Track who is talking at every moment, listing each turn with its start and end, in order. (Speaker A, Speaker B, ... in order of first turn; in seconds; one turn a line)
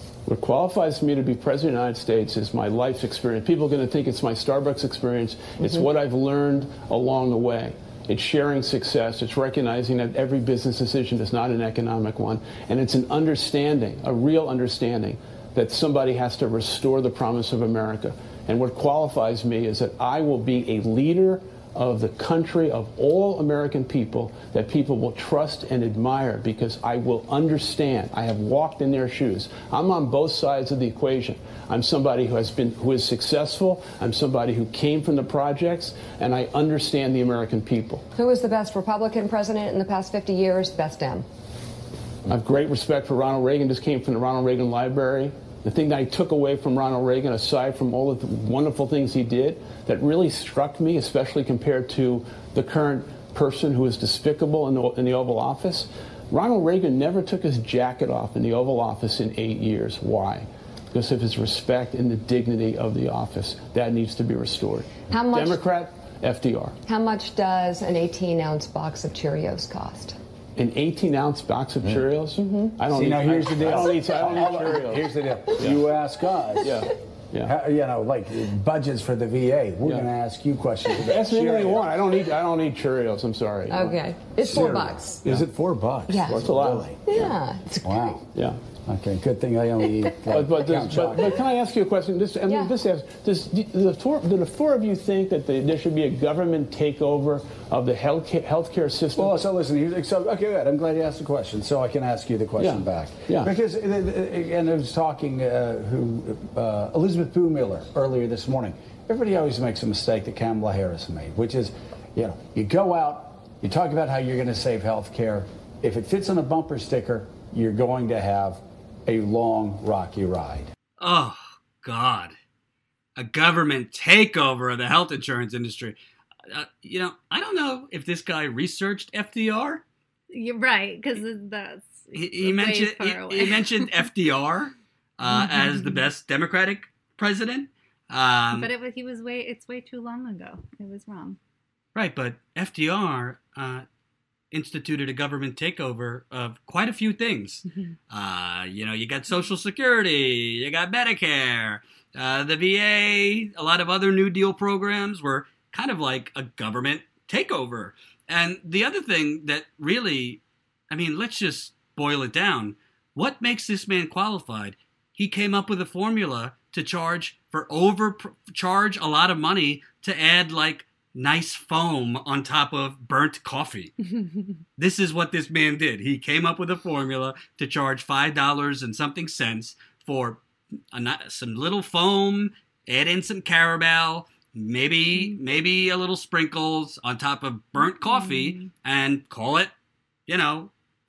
Speaker A: 0.2-38.0
Speaker B: 38.1-41.2
Speaker A: 42.3-66.8
Speaker B: 65.1-65.6
Speaker B: 66.9-70.2
Speaker A: 70.5-75.8
Speaker B: 72.4-72.8
Speaker C: 72.9-76.9
Speaker A: 76.6-77.5
Speaker C: 77.4-81.8
Speaker A: 81.0-85.5
Speaker B: 83.7-85.2
Speaker C: 84.4-87.3
Speaker B: 86.1-86.5
Speaker A: 86.2-87.0
Speaker B: 87.0-88.2
Speaker C: 87.8-88.2
Speaker A: 88.3-88.6
Speaker C: 88.8-91.4
Speaker A: 90.3-99.4
Speaker C: 99.2-120.7
Speaker A: 102.6-103.5
Speaker D: 121.0-122.3
Speaker D: 123.2-126.0
Speaker D: 126.5-129.8
Speaker E: 130.3-134.1
Speaker D: 132.1-138.7
Speaker E: 135.3-136.1
Speaker E: 138.5-141.4
Speaker D: 141.9-143.8
Speaker D: 144.5-173.9
Speaker D: 174.8-189.7
Speaker E: 187.8-188.7
Speaker D: 190.3-190.7